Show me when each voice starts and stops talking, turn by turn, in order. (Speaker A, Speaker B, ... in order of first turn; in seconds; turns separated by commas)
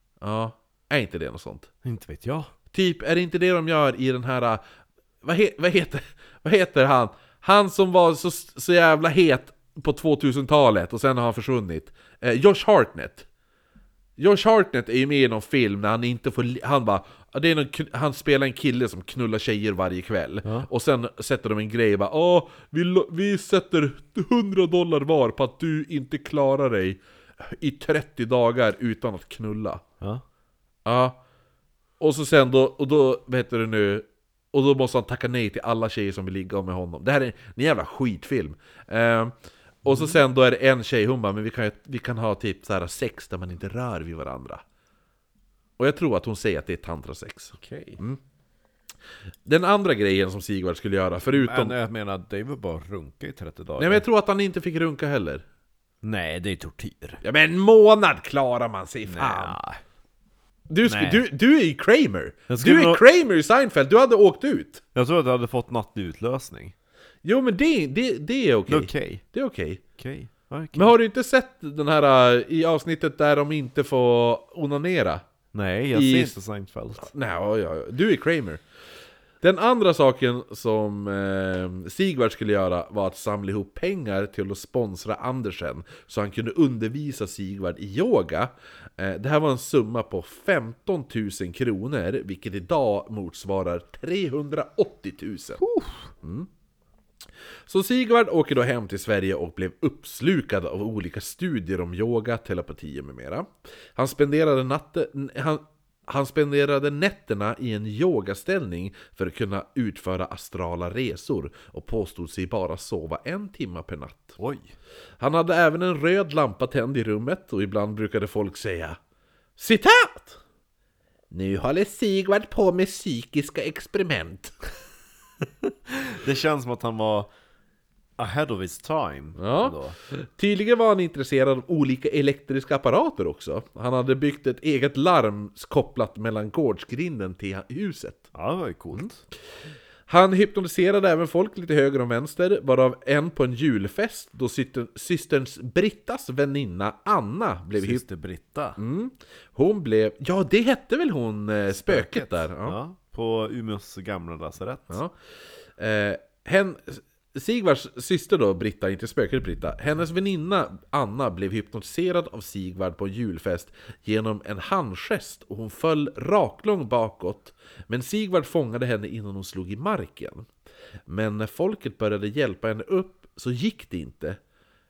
Speaker A: 0.2-1.7, Speaker B: 1.8-2.5, Speaker A: 2.7-4.6, Speaker A: 5.2-13.2, Speaker A: 14.2-29.8, Speaker A: 30.8-31.2, Speaker A: 32.0-44.6, Speaker B: 39.8-40.2, Speaker A: 45.8-48.2, Speaker B: 47.6-48.0, Speaker A: 49.5-51.7, Speaker B: 51.3-54.0, Speaker A: 53.8-55.4, Speaker B: 56.0-57.2, Speaker A: 57.2-59.6, Speaker B: 59.1-59.8, Speaker A: 60.7-64.8, Speaker B: 60.8-61.2, Speaker B: 62.5-63.0, Speaker B: 64.9-66.7, Speaker A: 67.2-69.8, Speaker B: 68.7-69.2, Speaker B: 70.0-70.9, Speaker A: 70.7-75.2, Speaker B: 75.5-77.1, Speaker A: 75.9-76.3, Speaker A: 77.0-78.6, Speaker A: 79.4-95.6, Speaker B: 95.6-96.1, Speaker A: 96.2-96.5, Speaker A: 97.7-114.4, Speaker B: 114.4-114.7, Speaker A: 115.2-119.0, Speaker A: 119.6-120.4, Speaker A: 121.3-124.5, Speaker B: 125.6-127.3, Speaker B: 128.2-130.0, Speaker A: 129.4-138.3, Speaker B: 138.3-139.2, Speaker A: 140.1-148.0, Speaker B: 147.7-148.8, Speaker A: 148.8-152.8, Speaker B: 151.7-155.0, Speaker A: 155.8-170.5, Speaker A: 171.1-174.4